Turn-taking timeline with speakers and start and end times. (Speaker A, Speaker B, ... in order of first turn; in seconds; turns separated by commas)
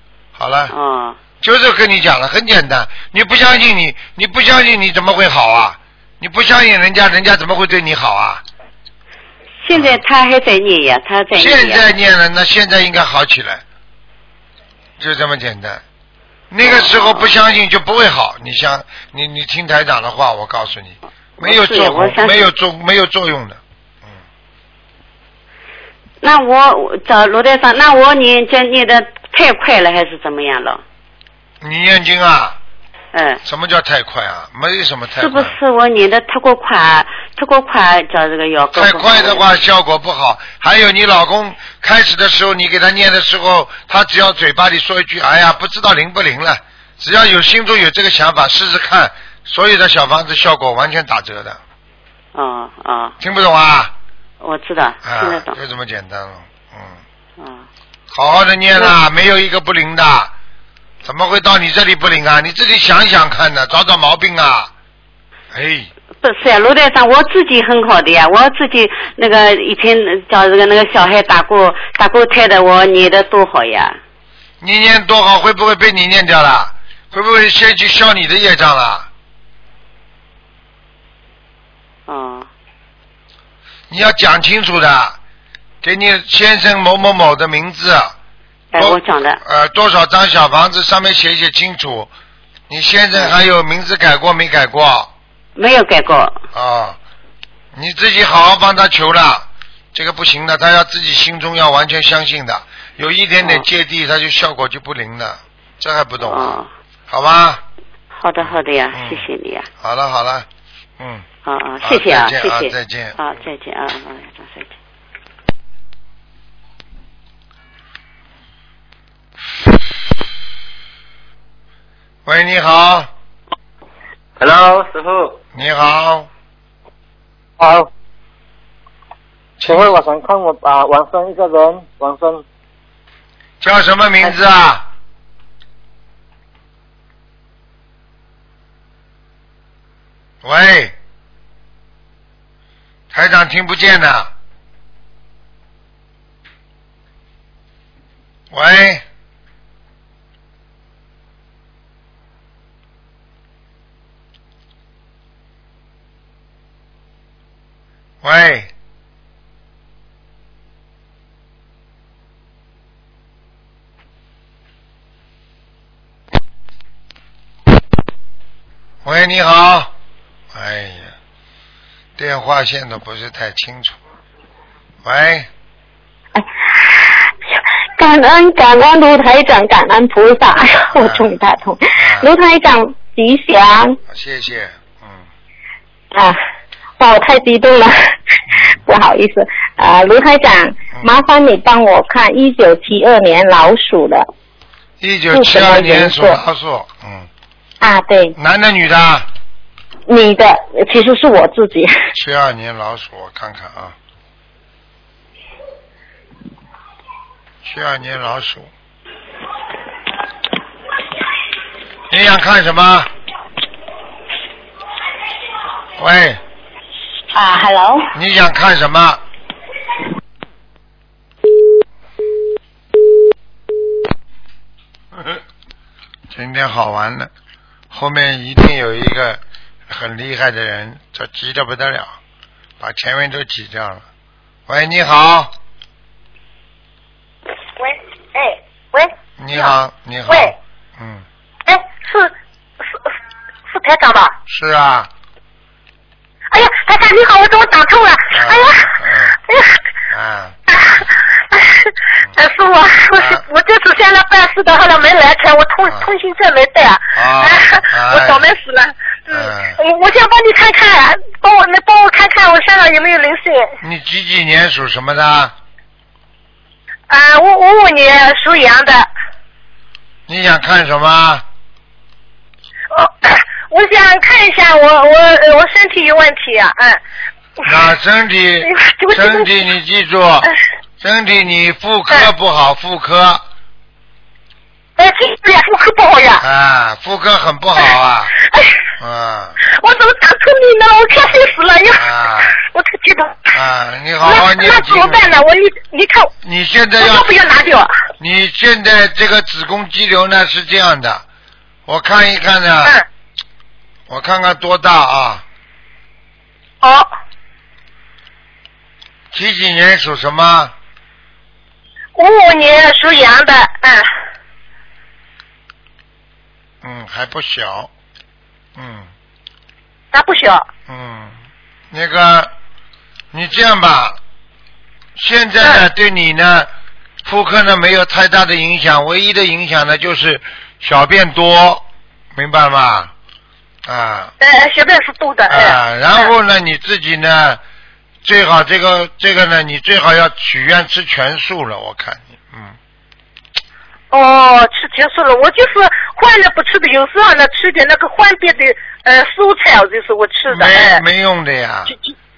Speaker A: 0.4-0.7, Speaker B: 0.7-1.2, Speaker A: 1.4-8.4, Speaker B: 9.6-11.8, Speaker A: 9.7-10.0, Speaker A: 11.3-13.6, Speaker A: 15.0-15.8, Speaker A: 16.5-23.6, Speaker B: 16.6-17.4, Speaker B: 21.4-22.5, Speaker B: 26.2-30.8, Speaker A: 31.6-32.6, Speaker B: 33.1-33.4, Speaker A: 33.4-35.5, Speaker B: 35.2-39.5, Speaker A: 38.7-51.6, Speaker B: 52.4-53.1, Speaker A: 53.2-53.9, Speaker B: 54.4-55.6, Speaker A: 55.0-57.0, Speaker B: 57.4-57.7, Speaker A: 58.1-60.3, Speaker A: 61.0-64.7, Speaker A: 65.5-65.9, Speaker B: 66.2-74.0, Speaker A: 74.6-79.1, Speaker B: 82.1-82.5, Speaker A: 83.9-85.2, Speaker A: 85.8-88.1, Speaker B: 88.7-89.4, Speaker A: 88.8-92.1, Speaker A: 92.7-95.1, Speaker B: 95.6-96.4, Speaker A: 96.5-97.0, Speaker A: 97.7-106.6, Speaker B: 103.4-103.7, Speaker B: 106.2-106.7, Speaker A: 107.1-107.6, Speaker B: 108.2-109.7, Speaker A: 108.4-109.3, Speaker A: 109.8-110.5, Speaker A: 111.0-111.3, Speaker B: 111.5-114.8, Speaker A: 111.8-113.2, Speaker A: 122.3-123.1, Speaker C: 124.4-125.4, Speaker A: 125.5-126.3, Speaker C: 127.6-127.9, Speaker A: 129.6-129.9, Speaker C: 129.6-132.4, Speaker A: 133.6-134.8, Speaker A: 140.4-140.9, Speaker A: 143.1-144.3, Speaker A: 148.5-149.0, Speaker A: 158.2-158.7, Speaker A: 169.1-169.9, Speaker A: 170.5-171.1, Speaker A: 172.2-174.0, Speaker A: 175.0-175.5, Speaker D: 176.3-177.2, Speaker D: 178.0-184.0, Speaker A: 180.9-181.3, Speaker A: 182.0-182.3, Speaker A: 184.1-185.2, Speaker D: 186.1-186.4, Speaker D: 187.0-188.2, Speaker D: 188.9-194.3, Speaker A: 195.0-197.3, Speaker D: 195.3-196.4, Speaker D: 197.8-198.3, Speaker A: 198.4-199.3, Speaker D: 200.1-201.9, Speaker A: 202.2-204.0, Speaker A: 207.6-208.7, Speaker A: 212.1-213.1, Speaker A: 216.0-216.4, Speaker D: 217.4-217.7, Speaker A: 218.1-219.2, Speaker A: 226.3-227.3, Speaker A: 227.9-232.1, Speaker A: 232.8-234.0, Speaker A: 234.7-235.5, Speaker E: 237.8-239.8, Speaker A: 239.4-241.2, Speaker E: 240.3-240.6, Speaker E: 241.7-242.3, Speaker E: 243.7-244.3, Speaker A: 244.5-245.1, Speaker E: 246.5-248.9, Speaker A: 248.3-249.4, Speaker E: 249.5-249.8, Speaker A: 250.1-250.6, Speaker E: 250.7-263.7, Speaker A: 253.2-253.4, Speaker A: 257.1-258.4, Speaker A: 259.3-259.8, Speaker A: 263.8-265.5, Speaker E: 267.1-269.1, Speaker A: 270.3-271.4, Speaker E: 272.9-277.0, Speaker A: 277.6-280.5, Speaker E: 278.6-279.5, Speaker A: 281.0-283.4, Speaker E: 285.0-286.4, Speaker A: 286.4-288.3, Speaker E: 288.5-288.8, Speaker A: 289.0-289.6, Speaker E: 289.7-292.1, Speaker A: 291.9-292.6, Speaker E: 292.6-293.5, Speaker A: 293.5-295.3, Speaker E: 294.2-296.3, Speaker A: 296.4-297.3, Speaker E: 297.0-297.9, Speaker A: 298.2-301.2, Speaker A: 301.9-303.0, Speaker A: 304.1-305.4, Speaker E: 306.8-307.1, Speaker A: 309.3-310.7, Speaker E: 312.2-314.1, Speaker A: 316.8-317.9, Speaker A: 318.8-319.1, Speaker E: 320.1-320.6, Speaker A: 320.9-321.4, Speaker A: 321.9-322.5, Speaker A: 323.3-324.2, Speaker A: 325.2-326.7, Speaker A: 327.2-333.1, Speaker A: 333.9-334.3, Speaker E: 334.4-336.3, Speaker A: 335.5-337.6, Speaker A: 338.2-342.8, Speaker E: 344.1-351.0, Speaker A: 350.5-351.9